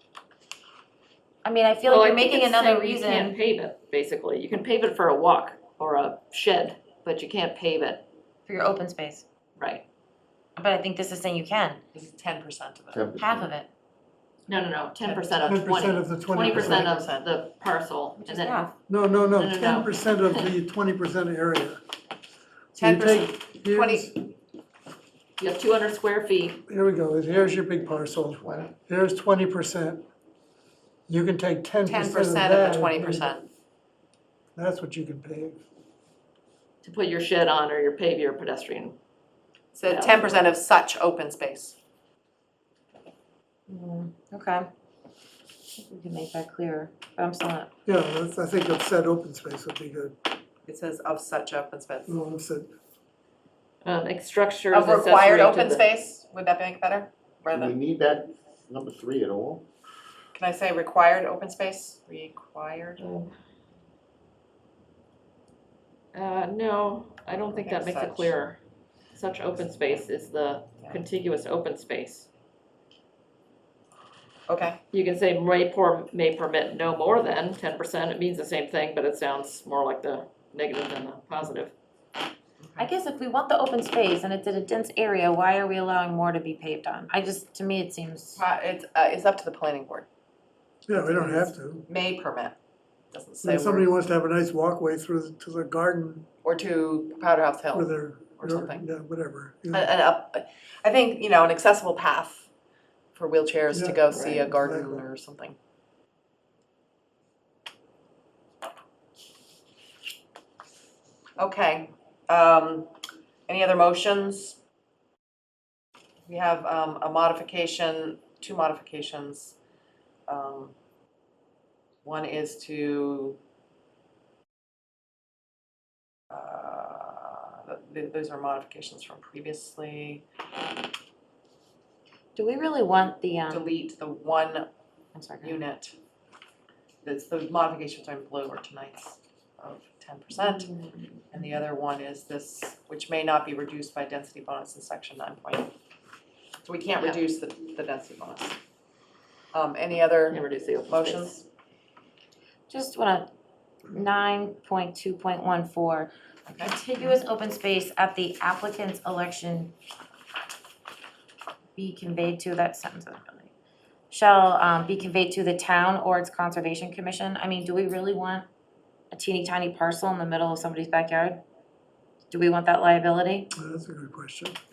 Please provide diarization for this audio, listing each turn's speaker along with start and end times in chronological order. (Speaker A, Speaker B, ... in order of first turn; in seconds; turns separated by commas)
Speaker A: 1.4-3.3, Speaker B: 1.9-8.0, Speaker A: 8.5-9.2, Speaker B: 9.6-9.8, Speaker A: 10.6-11.8, Speaker C: 11.9-13.1, Speaker D: 12.9-13.5, Speaker A: 13.2-13.7, Speaker B: 14.5-18.7, Speaker C: 14.9-15.6, Speaker E: 15.4-17.0, Speaker C: 16.4-17.2, Speaker A: 18.2-18.7, Speaker E: 18.9-21.8, Speaker B: 19.4-20.5, Speaker E: 22.7-24.2, Speaker C: 22.8-24.1, Speaker B: 25.4-26.6, Speaker E: 26.7-30.0, Speaker E: 31.1-33.4, Speaker C: 31.8-33.5, Speaker E: 34.5-35.6, Speaker B: 36.8-39.0, Speaker C: 39.7-41.8, Speaker B: 39.8-40.5, Speaker A: 43.7-44.6, Speaker A: 45.8-47.7, Speaker E: 47.9-50.2, Speaker C: 50.6-52.1, Speaker E: 52.0-52.7, Speaker B: 53.8-55.8, Speaker C: 54.7-57.7, Speaker D: 57.5-59.6, Speaker C: 60.3-63.0, Speaker B: 63.0-63.3, Speaker B: 66.1-68.6, Speaker C: 67.4-68.4, Speaker B: 69.1-72.3, Speaker C: 74.5-74.8, Speaker B: 74.9-81.7, Speaker C: 82.6-82.9, Speaker A: 82.8-88.4, Speaker C: 88.3-90.1, Speaker E: 90.9-91.8, Speaker C: 90.9-92.5, Speaker C: 93.1-93.9, Speaker E: 93.4-96.2, Speaker C: 96.4-98.8, Speaker E: 97.7-99.9, Speaker C: 99.7-102.5, Speaker C: 103.1-105.5, Speaker E: 103.7-105.0, Speaker B: 104.1-104.4, Speaker C: 111.4-112.9, Speaker C: 113.5-114.6, Speaker C: 116.3-119.6, Speaker C: 120.3-120.7, Speaker C: 122.0-123.4, Speaker C: 126.3-130.2, Speaker A: 132.3-133.7, Speaker C: 133.5-134.7, Speaker A: 135.1-135.6, Speaker C: 135.4-135.9, Speaker C: 137.0-140.7, Speaker A: 140.4-140.9, Speaker C: 141.3-145.7, Speaker C: 146.6-148.6, Speaker C: 149.5-151.4, Speaker B: 150.3-151.4, Speaker A: 152.7-153.3, Speaker A: 153.9-159.7, Speaker C: 156.5-156.7, Speaker A: 161.8-163.5, Speaker A: 164.1-168.4, Speaker A: 169.1-171.4, Speaker A: 172.3-173.5, Speaker E: 173.5-174.6